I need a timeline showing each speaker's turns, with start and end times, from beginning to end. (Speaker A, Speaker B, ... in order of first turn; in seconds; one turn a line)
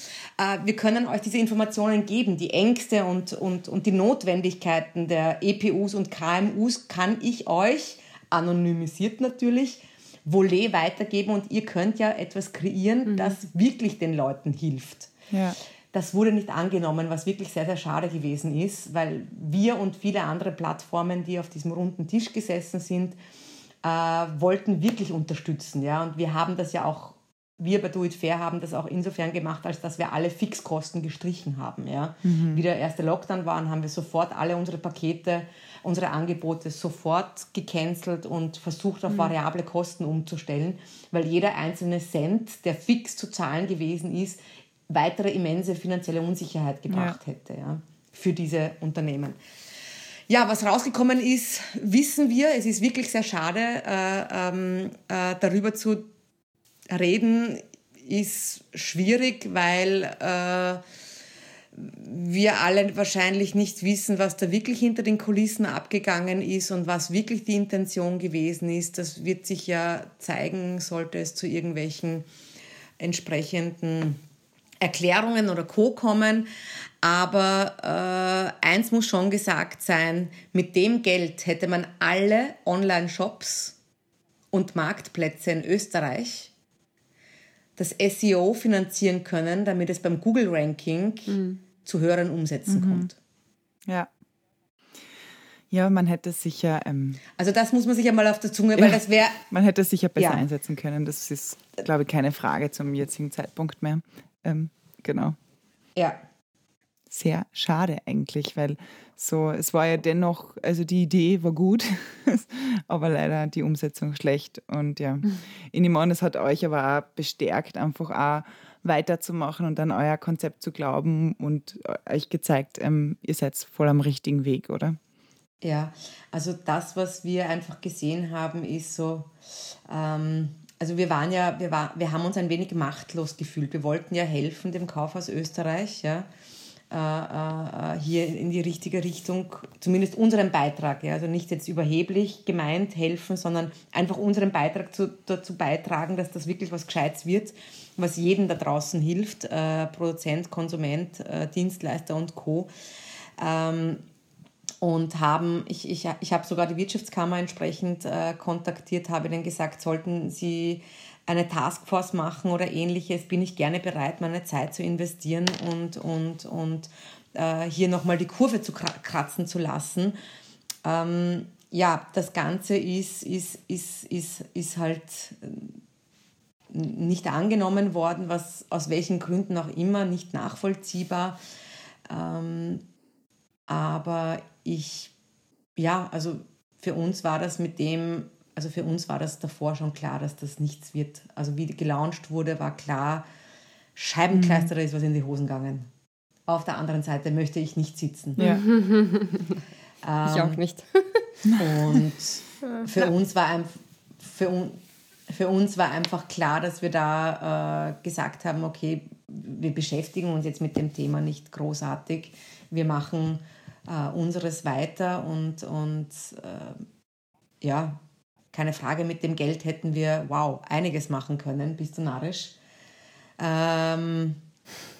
Speaker A: 0.4-15.1
Speaker B: 13.1-13.4
Speaker C: 15.3-15.6
Speaker A: 15.9-23.1
Speaker A: 23.8-49.4
Speaker C: 32.2-32.6
Speaker C: 46.9-47.2
Speaker A: 50.3-56.1
Speaker A: 56.9-60.8
Speaker A: 61.7-72.2
Speaker A: 73.0-74.2
Speaker A: 74.8-76.5
Speaker A: 77.0-83.8
Speaker A: 84.5-86.5
Speaker A: 87.8-93.2
Speaker B: 91.3-91.6
Speaker C: 92.7-93.1
Speaker C: 95.7-97.2
Speaker A: 97.3-99.4
Speaker C: 98.8-105.4
Speaker A: 100.2-100.5
Speaker C: 107.1-125.0
Speaker A: 125.6-136.3
Speaker A: 136.9-152.7
Speaker A: 153.4-154.0
Speaker A: 154.8-170.1
Speaker A: 170.8-175.8
Speaker A: 176.7-181.4
Speaker A: 182.1-182.8
Speaker A: 183.7-185.1
Speaker A: 185.8-193.2
Speaker A: 193.9-195.9
Speaker C: 194.3-194.7
Speaker A: 196.5-198.4
Speaker C: 198.4-198.6
Speaker B: 198.4-199.6
Speaker A: 200.0-200.6
Speaker B: 200.2-201.7
Speaker A: 201.6-216.8
Speaker B: 202.6-202.9
Speaker A: 217.6-218.0
Speaker A: 218.5-222.6
Speaker A: 223.4-224.4